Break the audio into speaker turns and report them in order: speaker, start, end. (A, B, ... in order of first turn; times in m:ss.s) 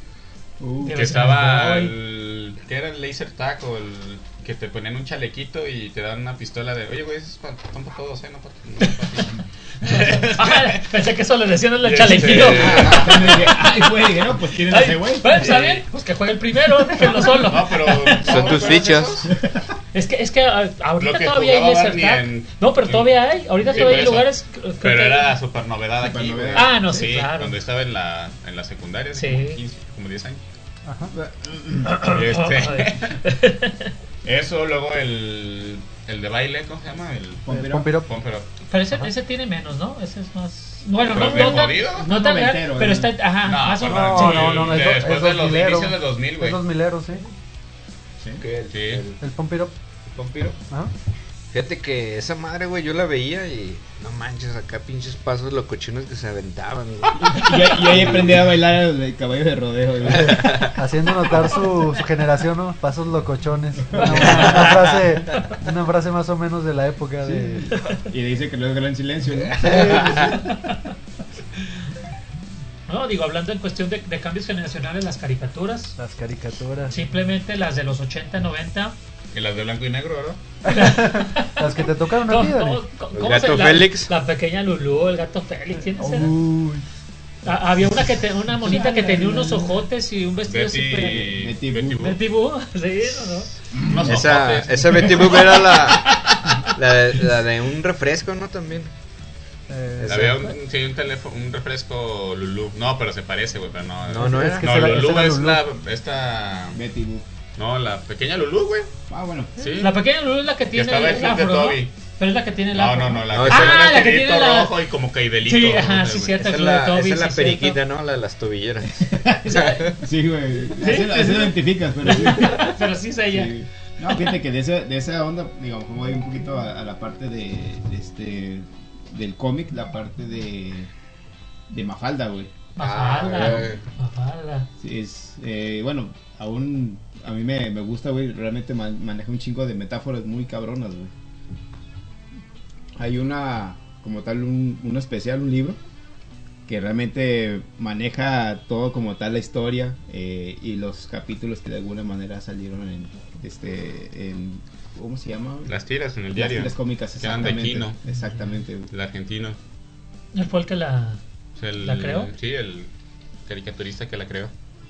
0:00.6-0:01.0 A
0:00.8-0:01.9 B
0:00.9-0:10.8 C
0:08.8-0:09.2 B
0:09.8-0:13.9 B
0:11.8-0:13.4 C
0:12.3-0:15.6 A
0:14.6-0:18.4 B
0:15.3-0:15.8 C
0:17.0-0:19.3 C
0:18.2-0:19.3 D
0:19.3-0:19.6 A
0:19.9-0:25.3 B
0:21.0-0:24.3 C
0:24.8-0:30.4 C
0:26.0-0:27.1 A
0:26.6-0:27.6 B
0:29.2-0:29.6 B
0:30.9-0:31.1 E
0:31.1-0:32.1 A
0:32.0-0:33.2 C
0:32.0-0:33.9 B
0:34.2-0:37.4 C
0:37.4-0:37.9 A
0:37.5-0:38.1 E
0:38.0-0:38.5 C
0:38.7-0:44.8 B
0:41.0-0:42.1 C
0:41.1-0:43.2 A
0:43.4-0:46.6 C
0:43.9-0:47.2 E
0:48.4-0:49.2 D
0:48.7-0:49.0 C
0:49.2-0:49.7 E
0:50.1-0:50.6 D
0:51.5-0:58.5 D
0:57.2-1:00.6 A
1:00.1-1:00.8 D
1:00.1-1:07.7 E
1:03.9-1:04.6 A
1:04.4-1:04.9 D
1:07.4-1:10.5 A
1:09.6-1:10.3 E
1:09.7-1:10.3 D
1:12.9-1:16.0 B
1:16.0-1:17.0 E
1:16.9-1:19.0 B
1:19.3-1:20.4 C
1:20.6-1:22.8 E
1:20.7-1:21.7 B
1:22.2-1:26.3 B
1:23.1-1:24.1 D
1:26.0-1:26.8 E
1:26.2-1:26.6 A
1:27.4-1:31.3 B
1:28.6-1:29.7 E
1:30.5-1:32.2 C
1:31.0-1:32.1 A
1:32.0-1:33.5 B
1:33.7-1:34.2 A
1:33.9-1:35.6 C
1:34.0-1:38.9 D
1:36.0-1:36.6 B
1:39.7-1:40.4 E
1:40.0-1:40.5 D
1:40.1-1:46.8 C
1:44.1-1:45.0 D
1:44.2-1:45.6 E
1:46.7-1:47.2 A
1:47.6-1:48.9 C
1:49.1-1:49.5 A
1:49.6-1:50.0 C
1:49.8-1:54.7 B
1:50.7-1:51.9 C
1:52.7-1:56.4 C
1:53.3-1:53.8 D
1:55.4-1:57.8 B
1:56.4-2:00.0 D
1:59.0-2:10.9 A
1:59.5-1:59.8 B
2:00.7-2:03.6 B
2:11.7-2:12.5 A
2:12.8-2:14.7 B
2:12.8-2:13.8 D
2:13.4-2:13.7 A
2:14.8-2:21.1 A
2:23.0-2:25.8 A
2:26.7-2:35.8 A
2:35.7-2:38.0 C
2:36.4-2:38.9 A
2:38.9-2:39.6 C
2:40.3-2:41.2 B
2:41.6-2:42.9 C
2:41.8-2:42.3 B
2:43.5-2:44.5 C